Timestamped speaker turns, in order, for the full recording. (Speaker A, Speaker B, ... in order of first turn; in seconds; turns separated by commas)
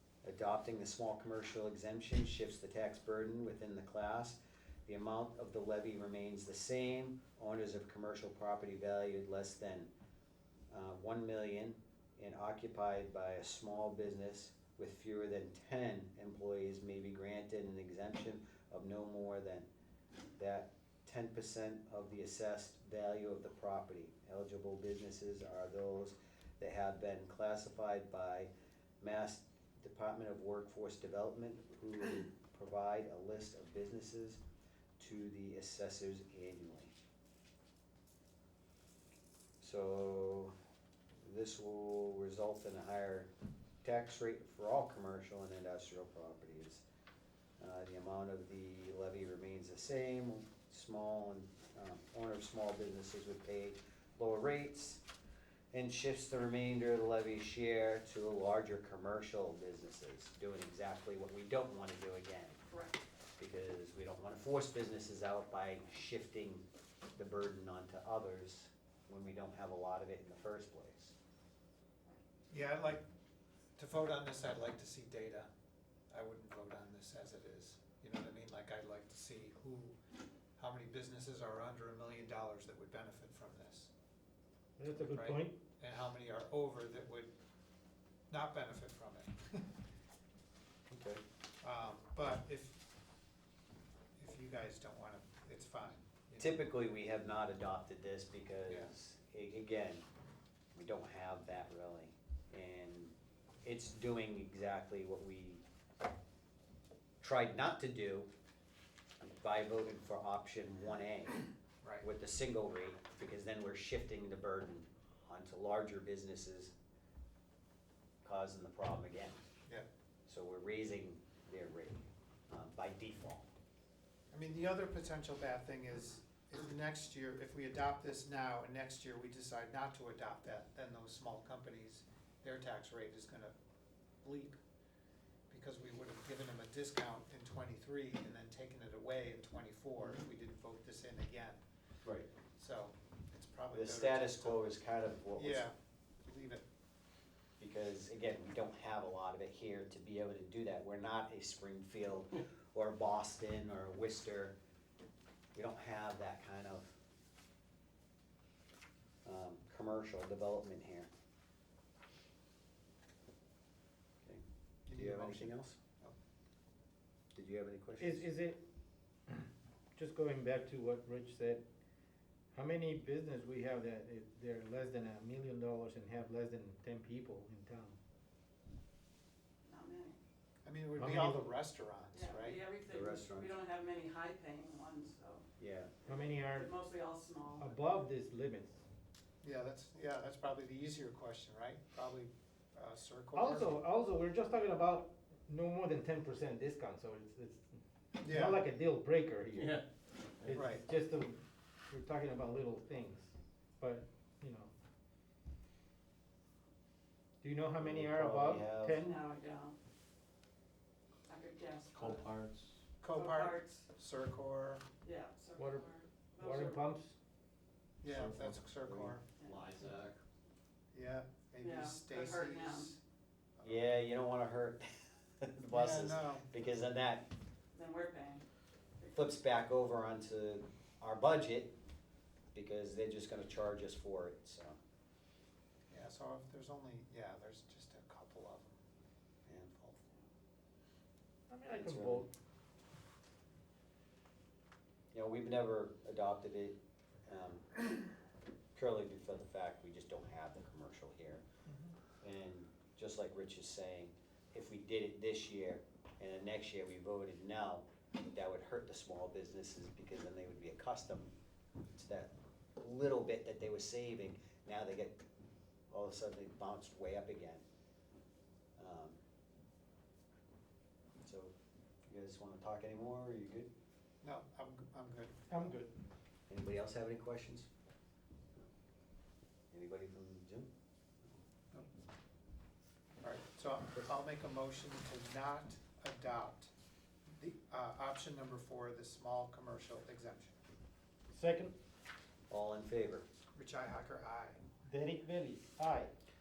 Speaker A: 0.2-9.9, Speaker A: 10.7-19.6, Speaker A: 20.4-28.5, Speaker A: 29.0-34.4, Speaker A: 35.0-36.9, Speaker A: 39.6-40.5, Speaker A: 41.2-43.3, Speaker A: 43.8-46.8, Speaker A: 47.6-55.0, Speaker A: 55.7-62.6, Speaker B: 62.7-63.0, Speaker A: 63.4-66.6, Speaker A: 67.2-71.2, Speaker C: 72.5-73.0, Speaker C: 73.8-75.5, Speaker C: 76.1-79.9, Speaker C: 80.6-83.9, Speaker D: 84.8-85.6, Speaker C: 85.0-87.3, Speaker C: 88.3-89.7, Speaker A: 90.9-91.2, Speaker C: 91.6-92.8, Speaker C: 94.2-96.6, Speaker A: 96.4-100.0, Speaker A: 100.7-105.6, Speaker A: 107.2-108.3, Speaker A: 109.2-111.4, Speaker A: 112.0-116.7, Speaker A: 118.2-119.4, Speaker A: 120.3-123.5, Speaker C: 124.3-133.5, Speaker C: 134.2-134.6, Speaker C: 135.5-141.6, Speaker C: 142.6-144.6, Speaker A: 143.7-145.7, Speaker C: 145.3-145.7, Speaker C: 146.2-146.6, Speaker A: 147.6-154.6, Speaker A: 155.5-156.9, Speaker A: 159.2-161.1, Speaker A: 164.2-165.8, Speaker C: 164.9-166.1, Speaker A: 167.3-168.2, Speaker D: 168.0-168.6, Speaker D: 169.3-171.6, Speaker D: 172.5-178.0, Speaker B: 179.6-180.2, Speaker C: 180.6-182.6, Speaker D: 180.9-181.5, Speaker B: 182.1-185.4, Speaker A: 182.9-183.6, Speaker A: 185.6-185.9, Speaker D: 186.1-186.7, Speaker B: 186.4-187.8, Speaker D: 187.6-188.8, Speaker C: 189.4-193.8, Speaker D: 193.3-197.6, Speaker D: 198.2-199.8, Speaker C: 198.2-198.6, Speaker E: 199.6-199.8, Speaker D: 200.4-204.7, Speaker C: 200.5-200.8, Speaker D: 207.4-209.2, Speaker A: 207.8-209.1, Speaker B: 209.0-209.8, Speaker B: 211.3-212.3, Speaker E: 211.9-212.8, Speaker C: 213.0-214.8, Speaker B: 213.1-213.8, Speaker B: 215.0-216.9, Speaker D: 215.6-217.1, Speaker C: 218.0-219.3, Speaker E: 218.1-218.6, Speaker A: 218.8-219.1, Speaker B: 219.4-219.8, Speaker E: 219.4-220.2, Speaker C: 220.9-223.0, Speaker B: 221.6-222.9, Speaker A: 223.6-227.3, Speaker C: 225.7-226.5, Speaker B: 227.7-228.4, Speaker A: 229.1-231.7, Speaker A: 232.5-234.8, Speaker C: 235.9-238.8, Speaker A: 239.5-240.0, Speaker D: 241.5-242.3, Speaker A: 241.7-242.2, Speaker A: 245.1-247.8, Speaker A: 248.7-251.4, Speaker C: 251.7-251.9, Speaker A: 252.2-261.3, Speaker A: 261.9-265.2, Speaker A: 265.9-267.6, Speaker A: 268.8-269.2, Speaker A: 271.2-271.5, Speaker A: 272.1-273.7, Speaker C: 274.2-275.6, Speaker D: 275.5-275.9, Speaker A: 276.5-277.7, Speaker A: 279.7-280.7, Speaker C: 283.2-286.7, Speaker C: 287.3-290.6, Speaker D: 291.3-291.7, Speaker A: 292.5-293.2, Speaker C: 293.5-294.6, Speaker D: 294.8-296.1